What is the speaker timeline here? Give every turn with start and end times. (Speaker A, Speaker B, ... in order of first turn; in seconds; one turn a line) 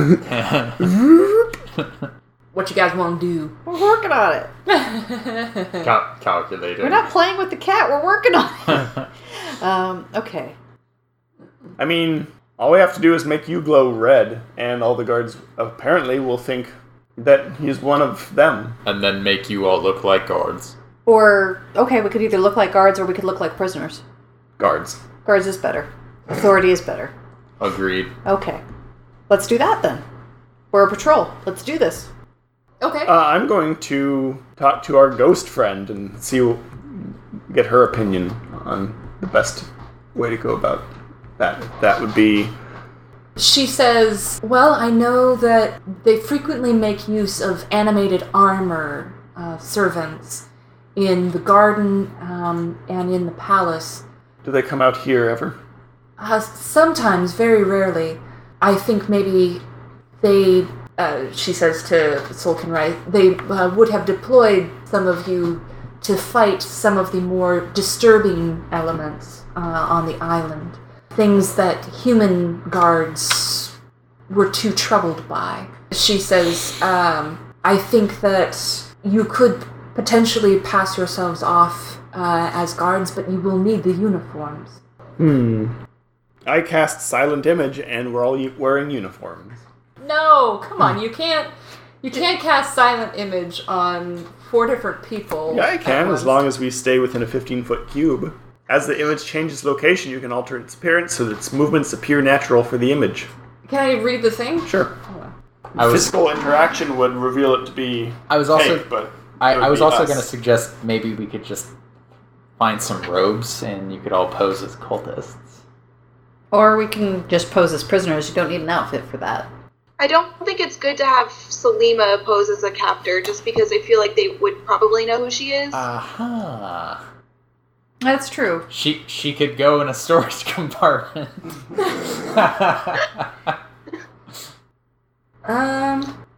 Speaker A: 0.2-1.0
Speaker B: 0.9-1.4
Speaker C: 2.5-3.5
Speaker D: 3.7-4.5
Speaker C: 4.7-5.9
Speaker A: 5.8-7.1
Speaker D: 6.8-10.6
Speaker B: 11.8-18.8
Speaker A: 18.9-20.8
Speaker D: 21.1-24.0
Speaker B: 24.6-25.0
Speaker D: 25.2-27.1
Speaker A: 27.6-28.1
Speaker D: 28.2-28.6
Speaker D: 29.3-30.0
Speaker D: 30.7-32.1
Speaker C: 32.8-33.1
Speaker B: 33.1-42.5
Speaker C: 43.4-54.0
Speaker B: 54.4-55.6
Speaker C: 56.2-59.6
Speaker C: 60.2-73.7
Speaker C: 74.3-84.8
Speaker B: 85.2-85.8
Speaker B: 86.5-89.6
Speaker C: 90.0-91.5
Speaker C: 92.0-96.4
Speaker B: 95.5-103.3
Speaker C: 103.7-105.3
Speaker B: 104.7-104.9
Speaker A: 105.8-106.1
Speaker B: 105.8-110.2
Speaker A: 108.3-111.7
Speaker A: 112.6-115.6
Speaker D: 116.5-119.5
Speaker E: 120.0-125.8
Speaker A: 125.7-127.0
Speaker D: 128.0-128.7
Speaker A: 128.7-133.5
Speaker C: 135.4-136.1